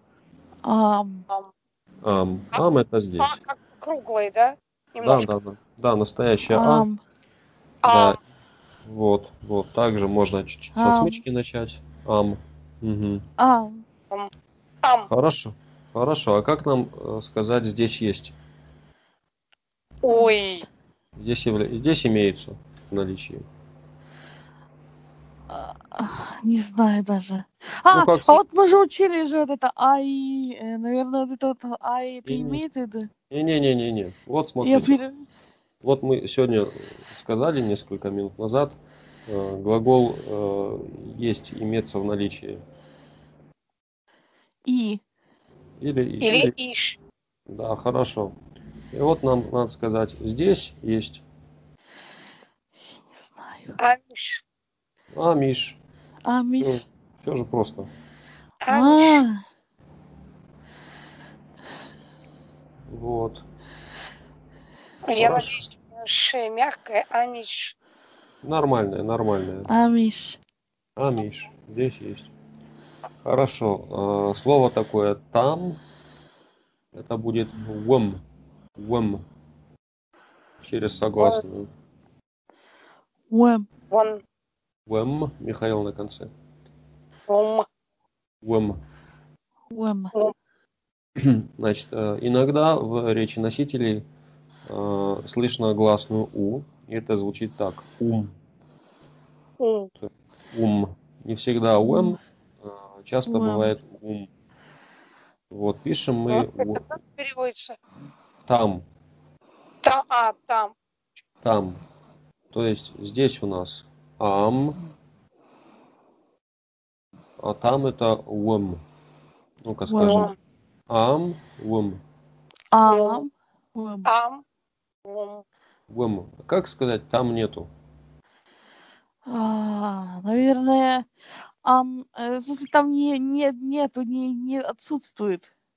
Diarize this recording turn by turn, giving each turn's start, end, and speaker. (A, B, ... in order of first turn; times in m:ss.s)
0:00.6-0:01.2 A
0:02.0-0:03.4 B
0:03.2-0:05.3 C
0:05.0-0:06.9 B
0:06.5-0:07.0 A
0:07.8-0:08.2 C
0:07.8-0:08.2 B
0:08.8-0:13.2 B
0:10.7-0:11.2 A
0:13.4-0:13.8 A
0:14.8-0:15.1 C
0:15.1-0:18.3 B
0:20.0-0:20.7 C
0:21.2-0:23.4 B
0:25.5-0:33.1 A
0:27.9-0:28.4 B
0:32.2-0:32.6 B
0:33.3-0:34.9 B
0:34.6-0:35.2 A
0:35.8-0:42.6 B
0:44.6-0:45.0 A
0:45.8-0:46.5 B
0:46.2-0:47.0 C
0:47.5-0:48.3 B
0:48.9-0:51.2 B
0:53.1-0:53.8 A
0:53.8-0:54.4 C
0:55.1-0:55.8 B
0:56.2-0:56.8 A
0:56.6-0:57.9 B
0:58.6-0:59.2 C
0:58.7-0:59.4 A
1:02.9-1:03.4 B
1:05.0-1:07.7 C
1:05.2-1:05.6 B
1:08.4-1:09.7 B
1:09.7-1:10.4 A
1:11.0-1:12.3 B
1:13.2-1:15.8 B
1:16.9-1:18.2 B
1:18.8-1:19.2 B
1:20.6-1:21.7 B
1:23.3-1:23.7 A
1:23.9-1:24.2 C
1:24.9-1:26.3 B
1:27.3-1:27.6 C
1:28.4-1:28.8 B
1:29.7-1:30.1 A
1:31.2-1:34.0 B
1:34.6-1:38.3 B
1:39.6-1:39.9 C
1:40.0-1:44.3 B
1:41.8-1:42.2 A
1:43.2-1:43.7 A
1:45.5-1:46.8 B
1:46.3-1:47.8 C
1:48.5-1:48.8 B
1:49.8-1:50.7 C
1:51.4-1:51.8 B
1:52.5-1:54.8 B
1:57.4-1:58.8 B
1:59.6-2:00.3 B
1:59.9-2:00.3 A
2:00.0-2:00.3 C
2:00.9-2:02.0 B
2:02.7-2:04.1 A
2:02.8-2:03.2 C
2:04.0-2:04.4 C
2:05.0-2:05.4 C
2:05.9-2:07.7 B
2:09.3-2:11.1 A
2:11.6-2:15.5 A